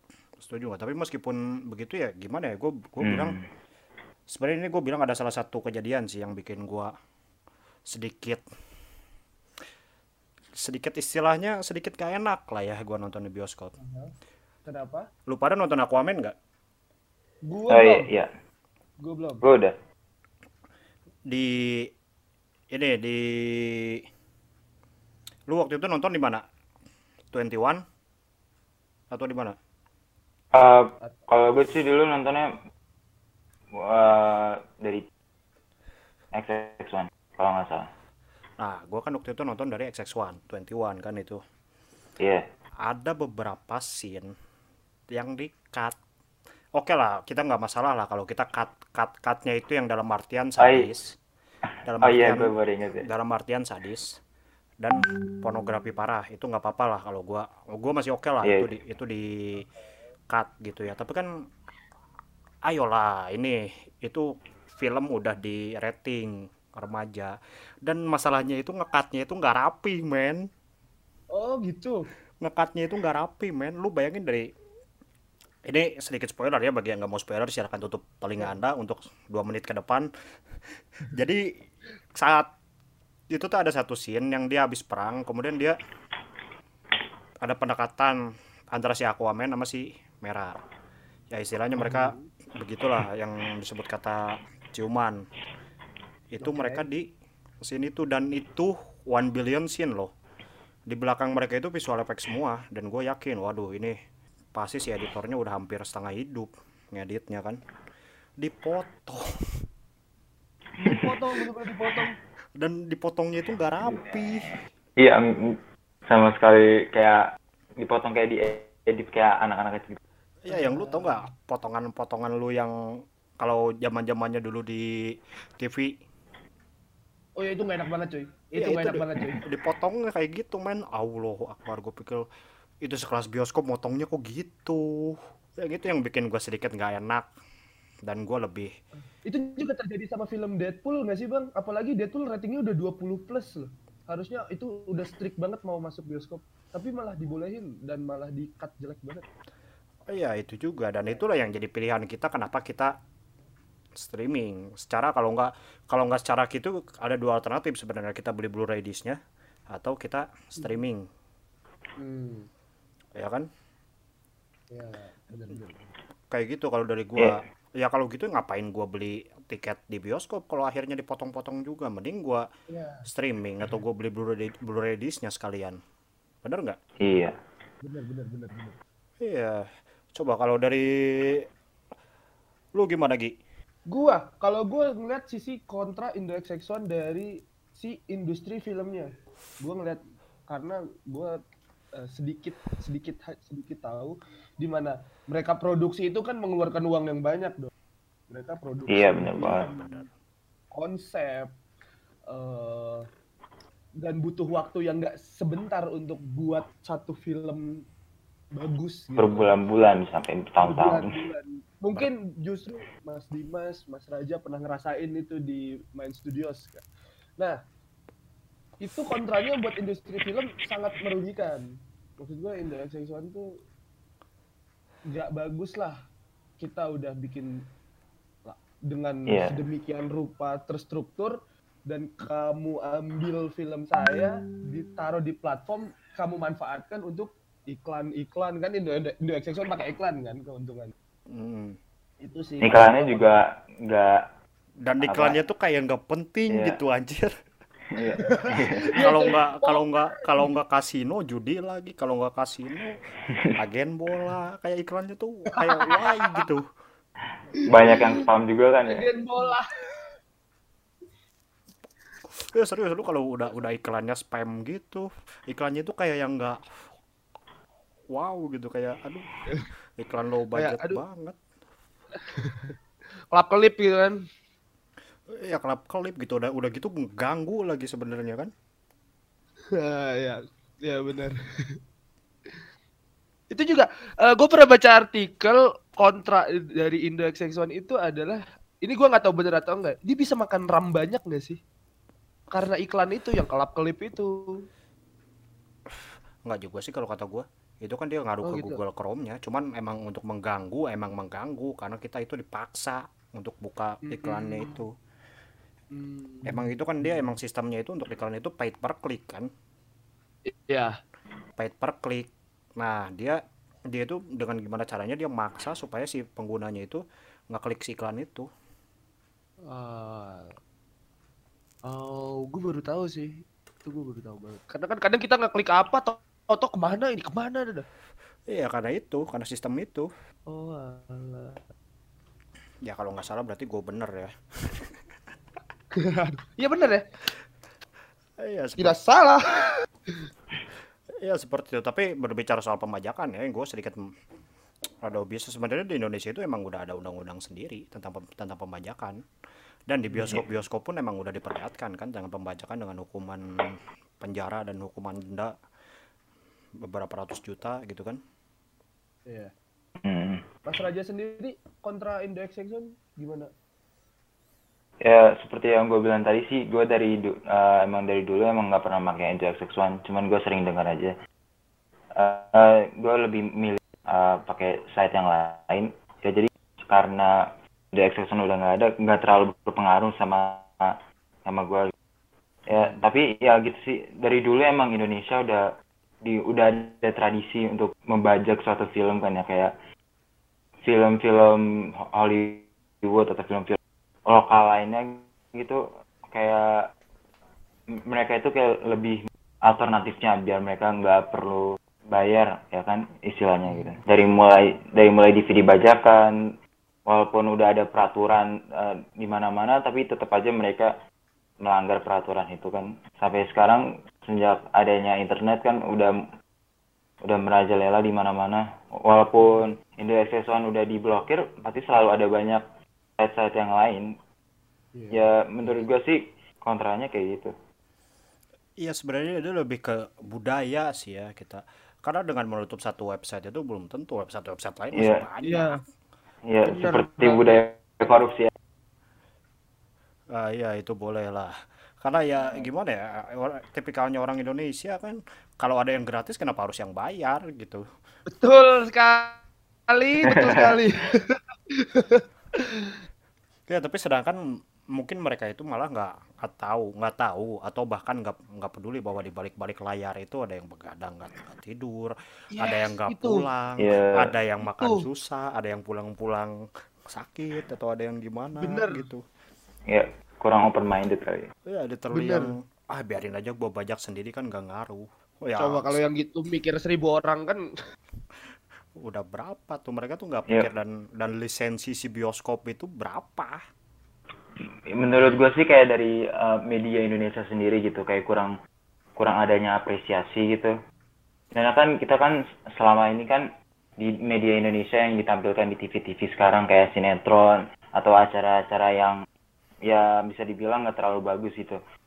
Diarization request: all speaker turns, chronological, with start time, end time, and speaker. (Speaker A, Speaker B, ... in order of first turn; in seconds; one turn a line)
Speaker A: 0.4-3.4
Speaker B: 3.0-3.4
Speaker A: 4.3-6.9
Speaker A: 7.9-8.4
Speaker A: 10.6-13.7
Speaker C: 13.8-14.1
Speaker C: 14.6-15.1
Speaker A: 15.3-16.3
Speaker C: 17.5-18.1
Speaker B: 17.7-18.3
Speaker C: 19.0-19.4
Speaker B: 19.4-19.8
Speaker A: 21.3-21.9
Speaker A: 22.7-24.0
Speaker A: 25.5-26.4
Speaker A: 27.3-27.8
Speaker A: 29.1-29.6
Speaker B: 30.5-32.5
Speaker B: 33.7-35.0
Speaker B: 36.3-37.9
Speaker A: 38.6-41.4
Speaker B: 42.2-42.4
Speaker A: 42.8-44.3
Speaker A: 45.1-45.9
Speaker A: 46.8-51.2
Speaker B: 50.6-50.9
Speaker A: 51.8-54.1
Speaker B: 52.0-53.1
Speaker A: 54.8-59.7
Speaker A: 60.3-61.3
Speaker A: 62.7-70.5
Speaker C: 71.3-72.0
Speaker A: 72.4-74.5
Speaker A: 75.7-80.1
Speaker A: 81.1-81.5
Speaker A: 82.2-82.5
Speaker A: 83.3-85.8
Speaker A: 87.4-88.2
Speaker A: 88.7-90.6
Speaker A: 91.3-95.2
Speaker C: 91.8-92.3
Speaker A: 96.3-100.1
Speaker C: 96.4-96.9
Speaker A: 100.9-104.0
Speaker A: 104.5-107.6
Speaker A: 108.4-109.3
Speaker C: 110.8-112.2
Speaker B: 110.9-111.2
Speaker A: 112.6-114.5
Speaker B: 113.9-114.2
Speaker B: 115.0-117.2
Speaker B: 117.8-120.0
Speaker A: 120.4-122.7
Speaker C: 120.5-121.2
Speaker A: 123.4-125.0
Speaker A: 125.6-126.0
Speaker C: 127.4-129.4
Speaker A: 128.6-132.2
Speaker A: 132.8-137.3
Speaker A: 138.0-138.7
Speaker C: 139.2-149.2
Speaker A: 150.1-152.9
Speaker A: 154.0-159.2
Speaker A: 159.7-161.0
Speaker C: 162.0-162.5
Speaker A: 163.2-163.5
Speaker C: 164.7-165.9
Speaker A: 166.3-172.4
Speaker C: 172.7-173.1
Speaker A: 173.1-175.8
Speaker A: 176.4-176.8
Speaker B: 177.0-177.3
Speaker C: 177.8-178.8
Speaker A: 179.2-181.4
Speaker A: 182.8-183.3
Speaker C: 183.9-191.4
Speaker C: 191.9-197.7
Speaker C: 198.3-200.0
Speaker B: 198.9-199.7
Speaker A: 199.4-200.1
Speaker C: 200.7-201.5
Speaker C: 202.3-203.1
Speaker C: 204.0-207.8
Speaker C: 208.5-209.5
Speaker B: 209.2-211.1
Speaker C: 210.6-216.8
Speaker C: 218.8-221.7
Speaker C: 222.2-223.5
Speaker C: 225.1-226.0
Speaker C: 226.6-227.6
Speaker C: 228.4-240.9
Speaker B: 229.3-229.6
Speaker A: 241.3-241.8
Speaker C: 242.2-243.4
Speaker B: 242.6-244.2
Speaker A: 244.8-247.3
Speaker B: 245.0-245.4
Speaker B: 246.5-246.8
Speaker B: 247.9-248.9
Speaker C: 248.3-249.9
Speaker A: 249.0-252.9
Speaker A: 253.6-256.6
Speaker C: 255.6-256.4
Speaker C: 257.6-258.2
Speaker B: 257.6-259.1
Speaker C: 258.9-260.2
Speaker A: 262.4-266.6
Speaker A: 268.1-269.3
Speaker A: 270.0-271.4
Speaker C: 270.6-271.0
Speaker C: 272.3-272.8
Speaker C: 273.3-274.2
Speaker A: 275.4-278.5
Speaker C: 279.7-281.7
Speaker C: 283.5-291.6
Speaker C: 292.5-294.4
Speaker A: 295.9-304.9
Speaker C: 298.4-298.8
Speaker C: 304.1-304.8
Speaker C: 305.9-307.3
Speaker A: 306.4-309.5
Speaker C: 310.4-310.9
Speaker A: 311.6-318.5
Speaker C: 319.7-320.5
Speaker C: 321.9-327.9
Speaker A: 328.5-330.1
Speaker C: 330.5-331.6
Speaker A: 332.8-334.9
Speaker C: 335.9-337.0
Speaker A: 338.4-339.0
Speaker C: 338.8-340.2
Speaker A: 341.2-344.0
Speaker A: 345.0-349.2
Speaker A: 349.9-355.5
Speaker C: 350.1-350.4
Speaker A: 356.8-358.2
Speaker C: 359.3-359.5
Speaker B: 360.0-360.4
Speaker C: 360.6-363.5
Speaker B: 365.0-371.1
Speaker B: 372.1-381.9
Speaker B: 382.7-385.7
Speaker C: 382.7-383.0
Speaker B: 386.2-389.7
Speaker B: 390.8-396.9
Speaker B: 398.1-406.4
Speaker C: 403.7-404.0
Speaker B: 407.1-410.9
Speaker B: 411.6-416.2
Speaker B: 417.2-422.6
Speaker B: 423.2-424.1
Speaker C: 424.9-425.8
Speaker B: 425.1-427.5
Speaker A: 428.8-435.8
Speaker B: 434.9-435.2
Speaker C: 435.4-435.8
Speaker B: 436.5-438.5
Speaker C: 436.6-437.6
Speaker A: 440.3-447.8
Speaker C: 448.3-453.0
Speaker B: 450.3-450.8
Speaker A: 453.7-454.4
Speaker A: 454.9-466.5
Speaker C: 462.5-463.4
Speaker B: 463.8-464.3
Speaker C: 464.6-465.0
Speaker A: 467.1-469.2
Speaker C: 468.6-469.1
Speaker B: 469.9-471.5
Speaker A: 471.6-476.0
Speaker C: 472.1-472.5
Speaker C: 475.6-477.6
Speaker A: 479.0-483.6
Speaker B: 484.9-488.5
Speaker B: 489.2-490.7
Speaker B: 491.5-493.5
Speaker B: 494.0-499.2
Speaker B: 499.9-501.8